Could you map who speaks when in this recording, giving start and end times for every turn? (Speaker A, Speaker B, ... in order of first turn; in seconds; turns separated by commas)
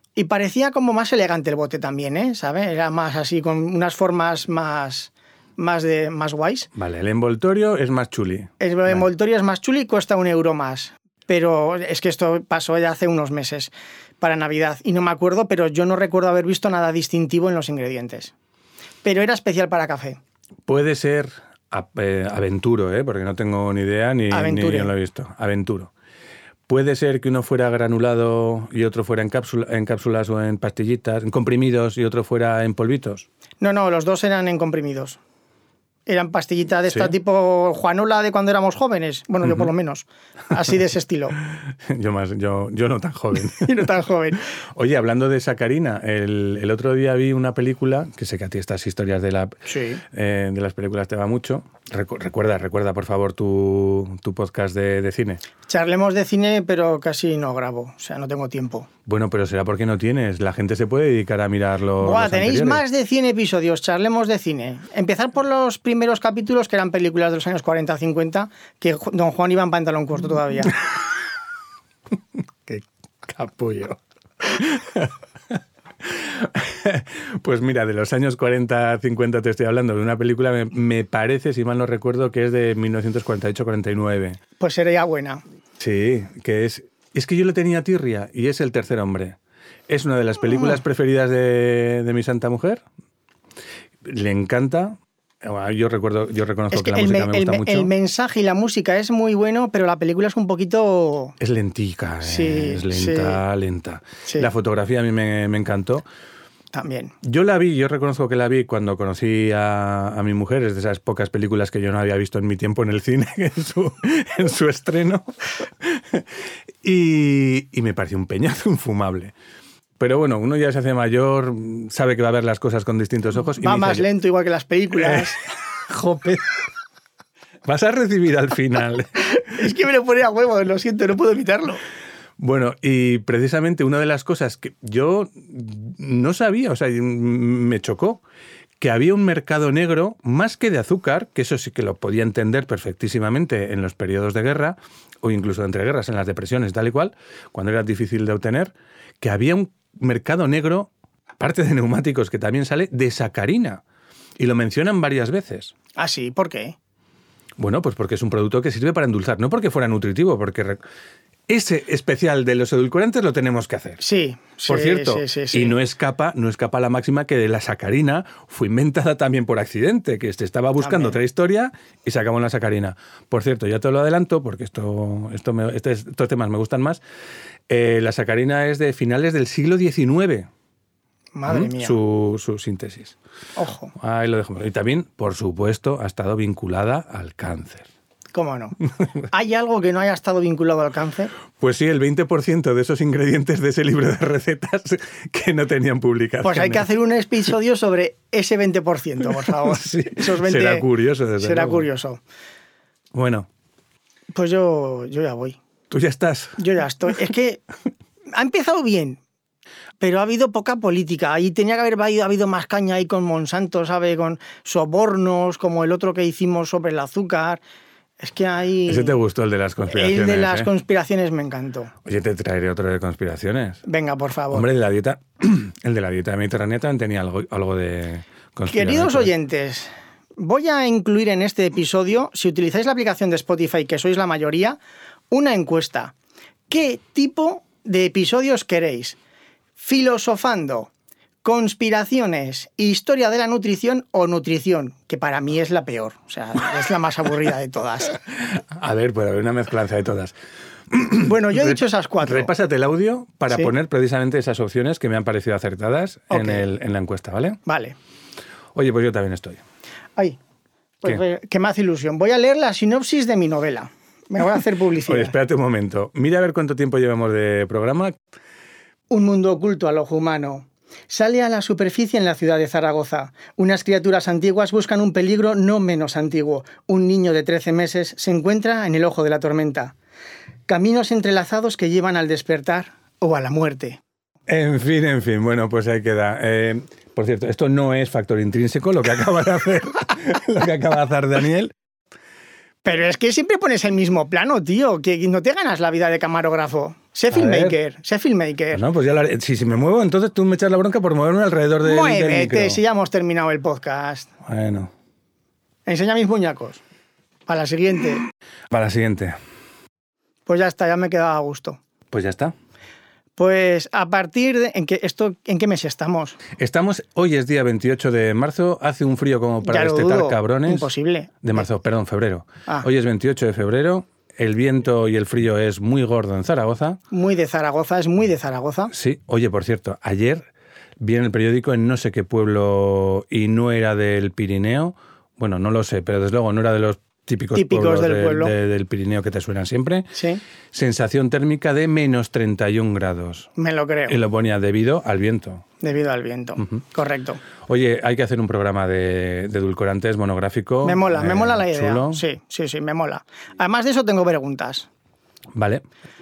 Speaker A: 0.1-6.7, Speaker B: 6.7-9.0, Speaker A: 8.6-18.3, Speaker A: 19.0-20.2, Speaker B: 20.7-25.9, Speaker A: 24.3-24.9, Speaker B: 26.7-33.3, Speaker A: 33.6-35.2, Speaker A: 36.0-41.3, Speaker B: 36.9-37.1, Speaker B: 41.9-43.7, Speaker A: 43.5-44.4, Speaker B: 44.7-55.4, Speaker A: 49.7-50.0, Speaker A: 55.7-58.9, Speaker B: 59.0-62.8, Speaker A: 62.0-70.8, Speaker B: 72.7-84.4, Speaker A: 84.6-85.4, Speaker B: 85.8-89.4, Speaker B: 89.9-92.8, Speaker A: 90.5-90.8, Speaker B: 94.0-97.9, Speaker A: 96.7-101.4, Speaker B: 101.4-106.0, Speaker A: 102.2-103.4, Speaker A: 106.7-107.1, Speaker B: 107.2-116.3, Speaker B: 116.8-119.3, Speaker B: 120.0-124.0, Speaker A: 123.6-125.4, Speaker B: 125.0-126.6, Speaker B: 127.7-129.4, Speaker A: 129.4-131.8, Speaker B: 132.4-138.2, Speaker B: 138.8-153.8, Speaker B: 154.4-155.7, Speaker A: 155.9-156.8, Speaker B: 157.6-160.8, Speaker B: 161.5-164.0, Speaker A: 164.0-165.8, Speaker B: 164.7-177.0, Speaker A: 170.8-171.2, Speaker B: 177.7-180.5, Speaker A: 181.3-182.0, Speaker B: 181.4-183.2, Speaker A: 183.6-183.9, Speaker B: 183.9-187.9, Speaker A: 188.3-188.8, Speaker A: 189.3-191.3, Speaker B: 191.6-196.9, Speaker A: 196.4-200.9, Speaker B: 199.4-201.9, Speaker A: 201.4-202.2, Speaker B: 203.1-203.5, Speaker A: 204.3-205.6, Speaker B: 205.9-206.6, Speaker A: 206.6-207.6, Speaker A: 208.3-209.2, Speaker A: 210.0-217.6, Speaker A: 218.2-219.2, Speaker B: 218.9-220.7, Speaker A: 219.9-221.9, Speaker B: 222.0-223.8, Speaker A: 223.9-224.7, Speaker B: 224.5-229.3, Speaker A: 228.7-234.8, Speaker A: 235.3-236.1, Speaker A: 236.7-239.2, Speaker A: 239.8-240.9, Speaker A: 241.4-248.2, Speaker B: 248.4-250.3, Speaker B: 250.9-257.6, Speaker A: 251.2-252.5, Speaker A: 256.3-256.6, Speaker A: 257.6-257.9, Speaker B: 258.7-259.6, Speaker A: 261.0-265.3, Speaker B: 265.0-268.2, Speaker A: 269.1-279.9, Speaker A: 280.7-284.0, Speaker B: 284.5-291.7, Speaker A: 292.8-298.8, Speaker B: 297.3-297.8, Speaker B: 298.7-302.8, Speaker A: 301.8-304.3, Speaker B: 304.4-304.9, Speaker A: 305.9-306.8, Speaker A: 307.4-308.2, Speaker B: 308.7-309.4, Speaker A: 310.5-311.8, Speaker B: 312.1-312.5, Speaker A: 313.4-316.4, Speaker B: 316.6-320.9, Speaker A: 319.6-321.6, Speaker B: 321.4-327.0, Speaker A: 327.1-328.9, Speaker B: 328.9-330.5, Speaker B: 331.0-340.2, Speaker A: 337.5-338.5, Speaker A: 340.1-340.4, Speaker B: 340.7-343.5, Speaker A: 343.6-344.2, Speaker B: 344.1-345.6, Speaker A: 345.8-347.4, Speaker B: 347.6-352.2, Speaker A: 350.8-354.9, Speaker B: 355.5-355.8